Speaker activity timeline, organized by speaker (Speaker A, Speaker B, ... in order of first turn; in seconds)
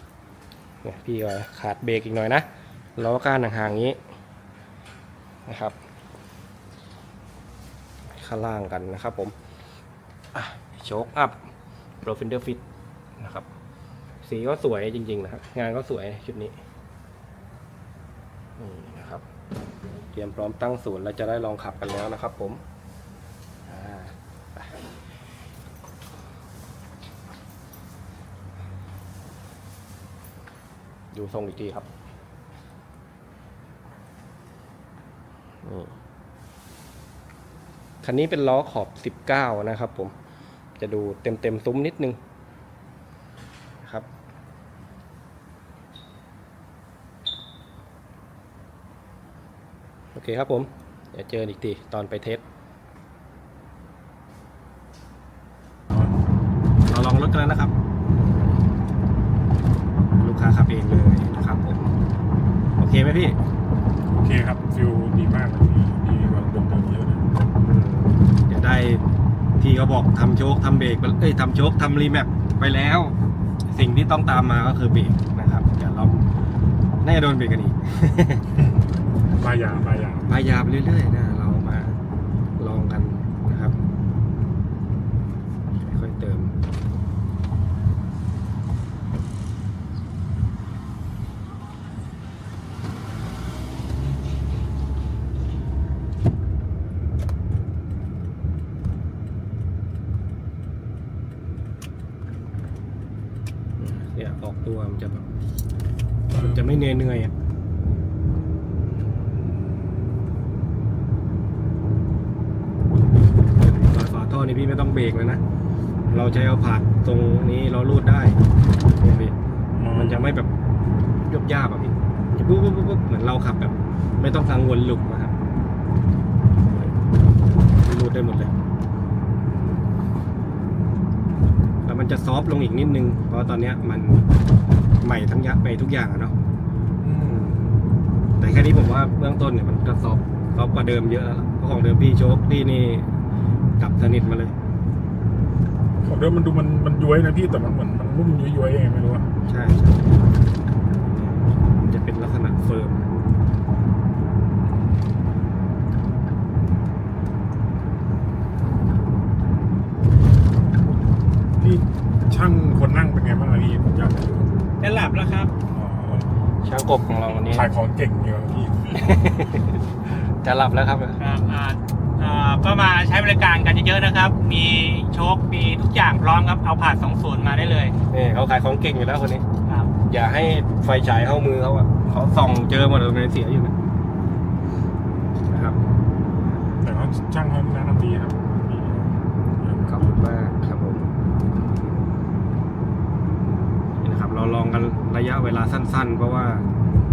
Speaker A: 0.8-2.5, 3.0-4.0, 5.5-5.8, 8.1-9.3, 10.3-11.5, 12.0-12.6, 13.2-13.5, 14.2-16.6, 18.6-19.2, 20.1-22.6, 23.6-24.8, 31.1-31.9, 35.6-35.9, 38.0-40.1, 40.8-42.2, 43.8-44.1, 50.1-52.4, 56.9-57.7, 60.2-61.8, 62.8-63.4, 67.6-69.0, 69.6-73.2, 73.7-76.2, 77.0-78.5, 80.2-82.0, 82.6-83.8, 85.8-86.5, 103.8-105.3, 106.3-107.3, 113.6-115.4, 116.1-118.4, 118.9-119.3, 119.8-120.5, 121.2-125.3, 126.6-126.9, 127.8-128.5, 131.8-134.3, 135.0-136.3, 138.4-143.1, 143.8-144.5, 149.4-150.2, 151.1-153.2, 166.6-167.7, 168.8-171.2, 178.1-179.5, 180.0-183.7, 185.5-185.8, 189.7-191.8, 194.0-196.7
Speaker B: 64.2-67.4, 79.3-80.3, 119.8-120.2, 137.0-137.5, 146.0-149.3, 161.6-164.6, 165.7-166.3, 167.5-169.0, 186.8-189.0, 189.6-189.9
Speaker C: 164.8-165.5, 171.2-177.9, 179.7-179.9